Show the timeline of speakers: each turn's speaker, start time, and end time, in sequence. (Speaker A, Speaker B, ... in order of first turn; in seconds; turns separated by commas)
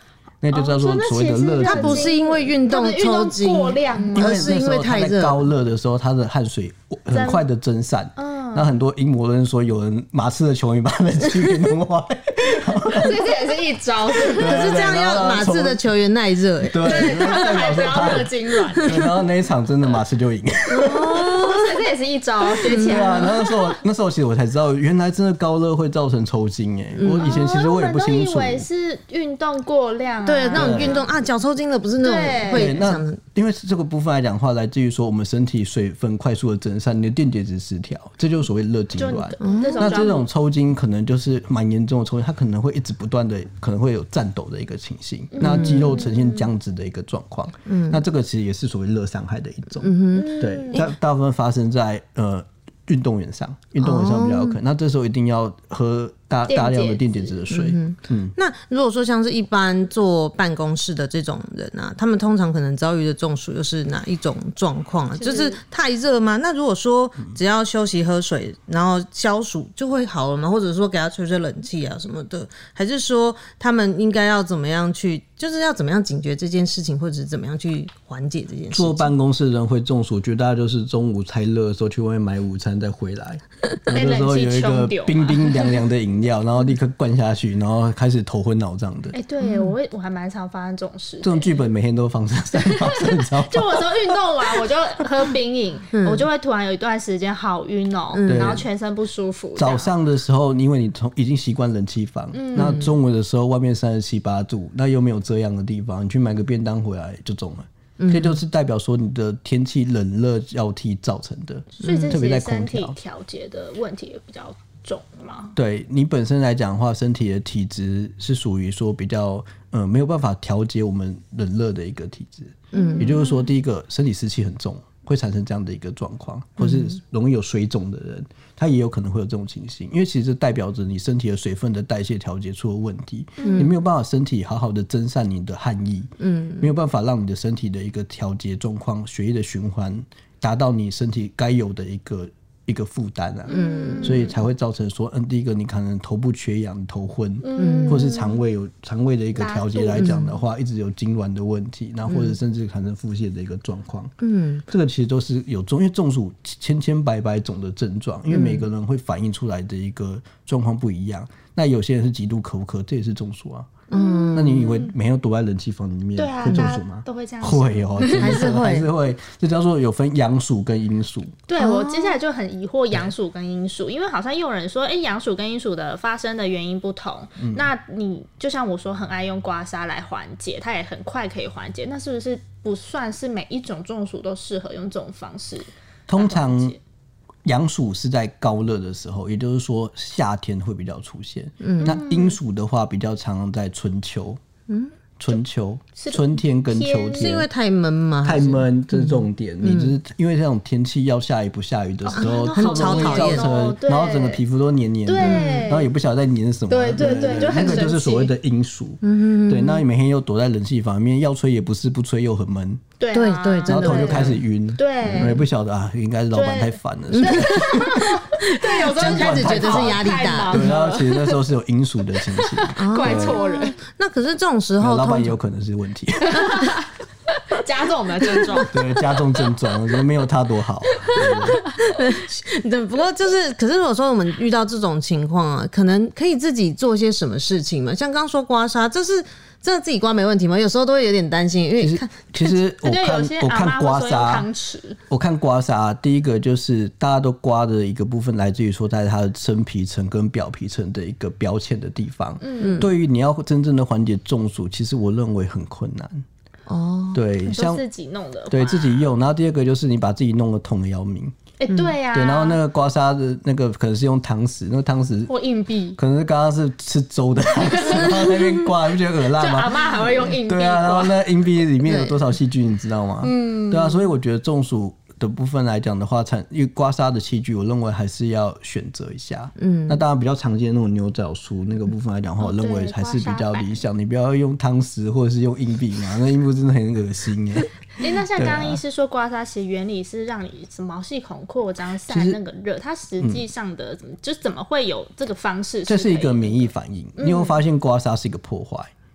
Speaker A: 0.4-2.1, Speaker B: 0.5-4.6, Speaker C: 1.6-5.5, Speaker A: 4.1-13.2, Speaker B: 7.1-7.5, Speaker B: 8.2-8.7, Speaker B: 12.9-14.8, Speaker A: 14.2-15.8, Speaker C: 14.3-17.5, Speaker A: 16.7-18.3, Speaker B: 16.8-19.1, Speaker C: 18.8-19.1, Speaker A: 18.8-21.3, Speaker C: 20.7-21.8, Speaker B: 21.0-23.8, Speaker C: 22.6-23.3, Speaker A: 22.8-28.7, Speaker C: 26.9-27.4, Speaker B: 27.2-31.1, Speaker C: 30.2-33.2, Speaker A: 30.5-31.0, Speaker B: 32.0-32.8, Speaker A: 32.5-58.3, Speaker B: 39.0-40.3, Speaker C: 39.4-40.1, Speaker B: 45.3-46.5, Speaker C: 45.4-46.0, Speaker C: 47.7-48.0, Speaker C: 49.8-50.9, Speaker B: 50.1-50.9, Speaker C: 53.8-54.6, Speaker B: 56.5-57.4, Speaker C: 57.5-79.1, Speaker B: 65.2-65.6, Speaker A: 78.7-89.2, Speaker B: 83.9-85.8, Speaker B: 89.1-91.6, Speaker C: 89.4-89.8, Speaker A: 91.2-94.2, Speaker B: 92.5-99.9, Speaker C: 95.9-96.3, Speaker C: 98.1-98.5, Speaker A: 98.3-98.7, Speaker A: 99.6-113.0, Speaker B: 102.3-102.9, Speaker C: 108.0-108.4, Speaker B: 111.8-115.5, Speaker A: 115.5-154.1, Speaker C: 122.7-123.2, Speaker B: 122.7-123.5, Speaker C: 126.6-126.8, Speaker B: 133.4-133.7, Speaker C: 133.4-133.7, Speaker C: 136.2-136.7, Speaker B: 143.5-144.3, Speaker C: 143.5-144.2, Speaker B: 147.4-148.4, Speaker C: 147.6-148.2, Speaker B: 149.3-150.2, Speaker C: 150.0-150.3, Speaker C: 152.1-152.4, Speaker C: 154.2-154.7, Speaker A: 154.7-163.8, Speaker C: 158.3-158.7, Speaker C: 163.9-164.8, Speaker B: 163.9-164.9, Speaker A: 164.3-171.3, Speaker B: 166.2-168.5, Speaker C: 168.0-168.9, Speaker B: 171.5-186.8, Speaker C: 171.6-172.2, Speaker A: 186.1-186.8, Speaker A: 187.4-194.4, Speaker C: 191.6-192.0, Speaker B: 191.8-192.4, Speaker A: 195.2-197.5, Speaker B: 196.0-197.4, Speaker C: 197.1-199.9, Speaker A: 198.2-212.8, Speaker B: 202.0-204.4, Speaker C: 202.1-203.6, Speaker B: 205.1-205.9, Speaker C: 205.2-205.7, Speaker B: 206.7-208.3, Speaker C: 207.2-207.8, Speaker C: 209.0-209.8, Speaker B: 213.0-215.4, Speaker C: 213.1-214.4, Speaker A: 213.7-218.2, Speaker C: 215.1-215.4, Speaker B: 216.3-221.4, Speaker C: 217.1-220.7, Speaker A: 218.8-223.4, Speaker B: 222.2-223.8, Speaker C: 222.8-225.4, Speaker A: 224.8-226.6, Speaker B: 226.2-229.4, Speaker A: 228.6-231.7, Speaker B: 230.9-231.9, Speaker C: 231.8-242.5, Speaker A: 241.8-244.5, Speaker B: 242.8-245.0, Speaker A: 245.1-256.2, Speaker B: 252.4-252.9, Speaker C: 252.6-252.9, Speaker C: 256.7-257.2, Speaker A: 257.1-257.8, Speaker B: 257.4-259.1, Speaker A: 258.5-261.4, Speaker B: 261.6-262.6, Speaker A: 262.1-265.3, Speaker B: 265.3-266.0, Speaker A: 266.0-287.7, Speaker B: 267.6-268.3, Speaker C: 268.0-268.5, Speaker B: 269.4-271.2, Speaker C: 271.9-272.2, Speaker B: 273.2-274.0, Speaker C: 279.6-280.0, Speaker B: 282.4-283.8, Speaker B: 288.0-297.6, Speaker A: 288.4-288.8, Speaker A: 292.1-292.4, Speaker A: 295.9-298.9